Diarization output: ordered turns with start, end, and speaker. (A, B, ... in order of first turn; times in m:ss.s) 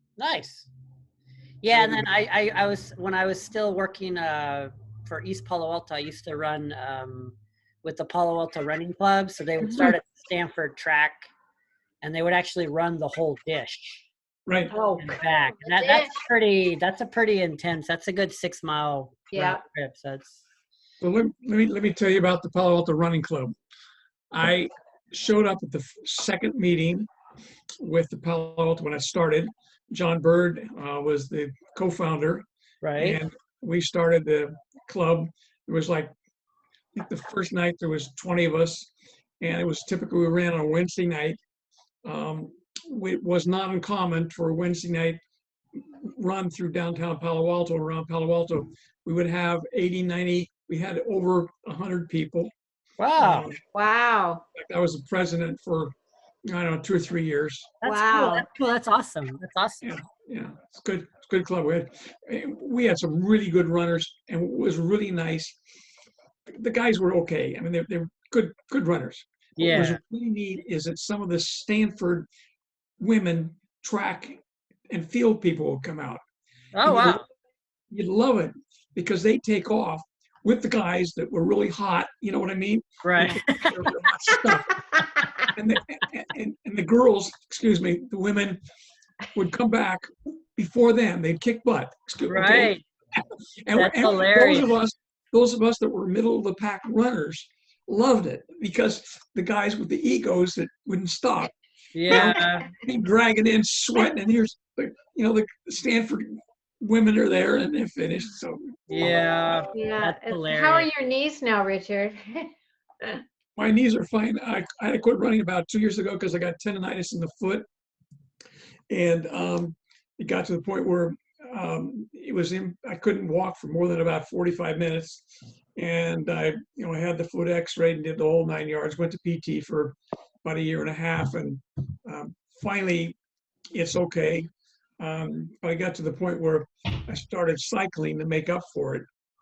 0:00.2-0:00.7 A
0:01.6-0:11.3 A
0:01.7-0:02.0 B
0:09.6-0:10.0 B
0:12.0-0:14.1 A
0:14.5-0:14.7 B
0:14.7-0:16.2 C
0:15.0-0:20.4 A
0:19.3-0:19.6 C
0:21.0-0:23.6 B
0:24.3-0:27.1 B
0:27.8-0:36.1 B
0:32.8-0:33.2 A
0:37.0-0:41.4 B
0:42.0-0:45.2 B
0:45.8-0:52.5 B
0:53.0-0:53.5 A
0:53.2-0:53.6 B
0:53.7-0:54.4 C
0:54.6-0:55.9 B
0:56.4-0:57.7 B
0:57.8-0:59.9 A
0:57.8-0:58.5 C
0:59.8-1:05.6 B
1:06.5-1:12.3 B
1:09.6-1:10.0 A
1:13.0-1:16.2 B
1:16.8-1:17.3 A
1:16.8-1:17.2 B
1:17.9-1:25.0 B
1:23.0-1:23.9 A
1:25.5-1:28.6 B
1:29.3-1:41.5 B
1:32.3-1:32.8 A
1:33.7-1:34.7 A
1:42.0-1:42.7 A
1:42.1-1:48.8 B
1:48.9-1:50.9 A
1:49.7-1:52.5 C
1:53.6-1:57.7 B
1:58.9-2:13.2 B
2:13.7-2:19.1 B